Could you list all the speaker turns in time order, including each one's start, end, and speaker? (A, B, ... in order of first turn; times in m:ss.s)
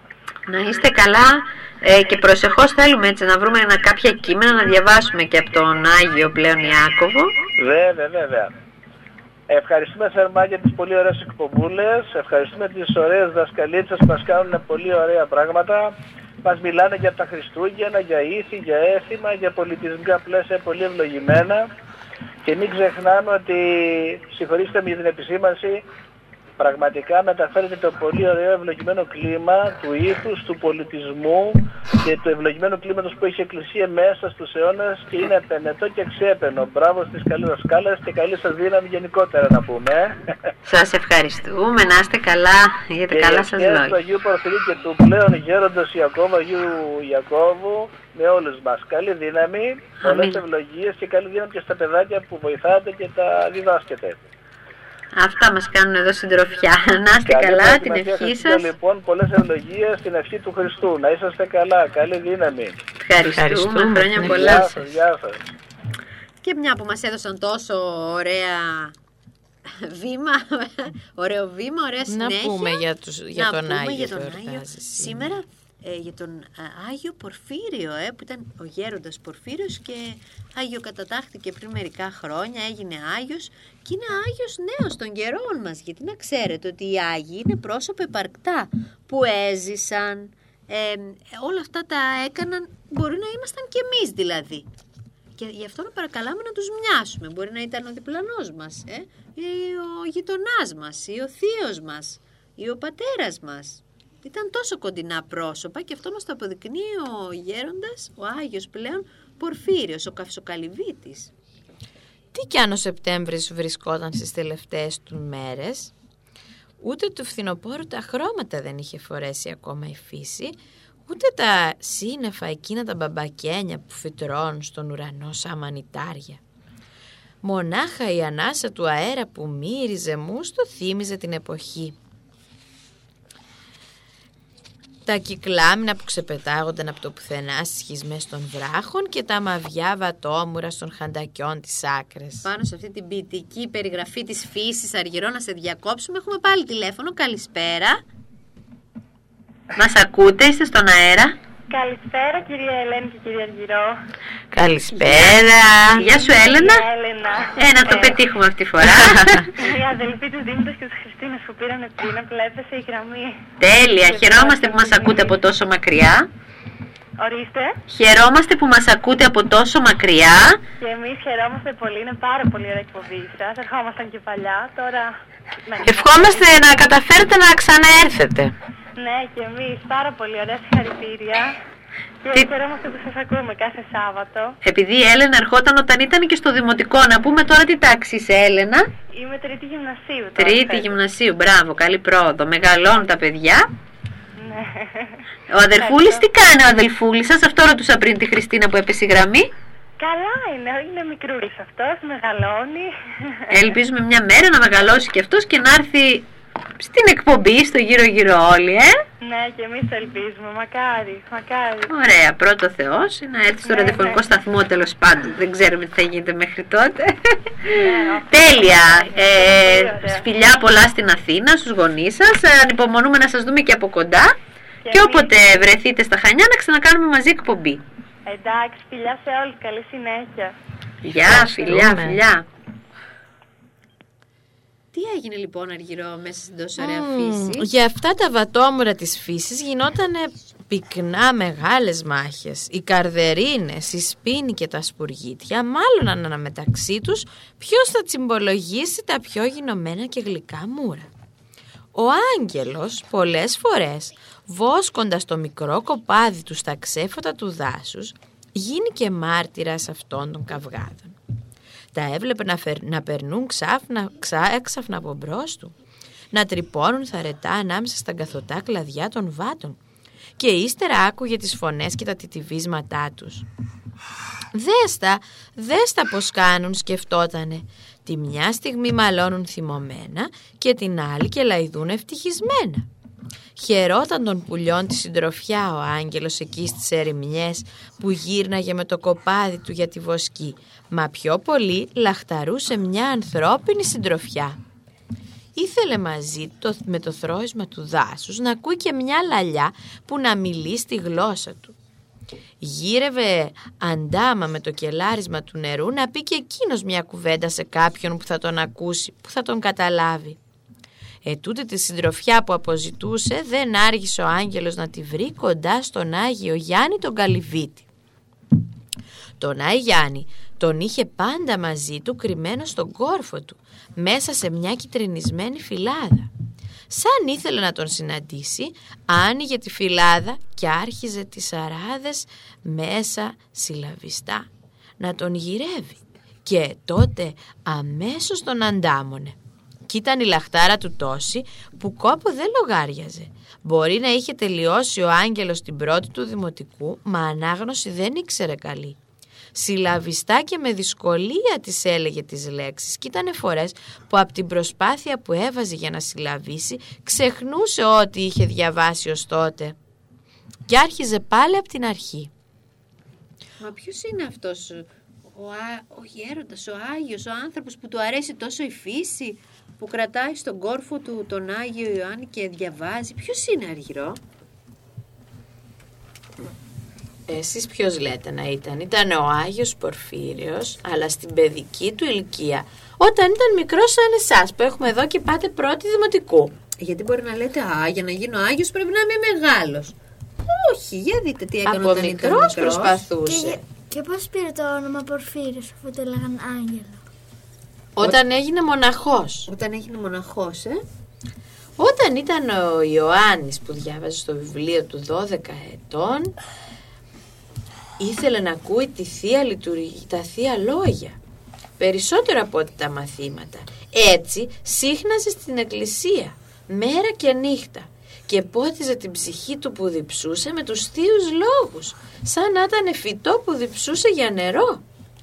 0:00.5-0:07.4 A
0:07.6-0:08.5 B
0:09.5-0:21.6 B
0:22.4-0:25.8 B
0:26.6-0:40.2 B
0:40.6-0:44.0 A
0:43.1-0:54.2 B
0:50.0-0:50.4 A
0:55.1-0:58.7 A
0:57.3-1:02.8 B
1:03.0-1:04.7 A
1:03.3-1:04.8 C
1:04.2-1:05.5 B
1:06.4-1:09.0 A
1:09.6-1:12.8 A
1:12.1-1:15.4 C
1:13.3-1:34.7 A
1:35.4-1:51.3 A
1:52.3-1:55.9 C
1:56.8-2:00.6 C
2:01.1-2:06.4 C
2:07.4-2:12.0 C
2:15.1-2:22.5 C
2:22.4-2:28.0 A
2:29.8-2:31.4 A
2:31.7-2:33.9 D
2:34.5-2:36.0 C
2:35.0-2:35.4 A
2:36.0-2:36.8 A
2:36.0-2:38.2 D
2:37.6-2:39.5 A
2:38.8-2:39.5 C
2:39.6-2:43.4 D
2:43.6-2:46.3 A
2:44.0-2:45.4 D
2:47.2-2:47.8 D
2:47.9-2:50.6 A
2:50.8-2:55.1 D
2:55.7-2:56.5 D
2:55.8-2:58.5 C
2:59.0-3:01.6 D
3:02.2-3:04.6 D
3:04.6-3:08.9 A
3:09.1-3:11.0 D
3:10.4-3:13.7 A
3:14.4-3:15.2 D
3:15.5-3:19.5 A
3:15.8-3:16.2 D
3:20.0-3:23.4 D
3:23.5-3:26.3 A
3:26.8-3:29.0 A
3:29.2-3:31.9 D
3:31.9-3:44.4 A
3:33.7-3:34.2 D
3:37.7-3:40.2 D
3:44.9-3:45.5 D
3:44.9-3:47.8 A
3:48.3-3:50.5 D
3:51.0-3:52.5 A
3:51.1-3:52.2 C
3:54.9-3:57.7 A
3:56.8-4:11.1 C
4:11.9-4:21.2 C
4:21.9-4:25.7 C
4:26.3-4:29.8 C
4:30.4-4:33.4 C
4:34.5-4:42.9 C
4:43.6-4:54.6 C
4:55.6-5:01.7 C
5:02.6-5:10.4 C
5:11.2-5:17.9 C
5:19.4-5:26.3 C
5:26.9-5:34.5 C
5:35.0-5:39.4 C
5:39.9-5:49.0 C
5:49.6-5:59.8 C
6:00.7-6:02.3 C
6:03.6-6:14.2 A
6:17.3-6:26.5 C
6:26.8-6:33.0 A
6:31.7-6:33.6 C
6:33.3-6:37.0 E
6:38.0-6:39.5 C
6:39.5-6:40.8 A
6:41.8-6:46.3 C
6:48.0-6:51.2 C
6:51.8-7:04.8 C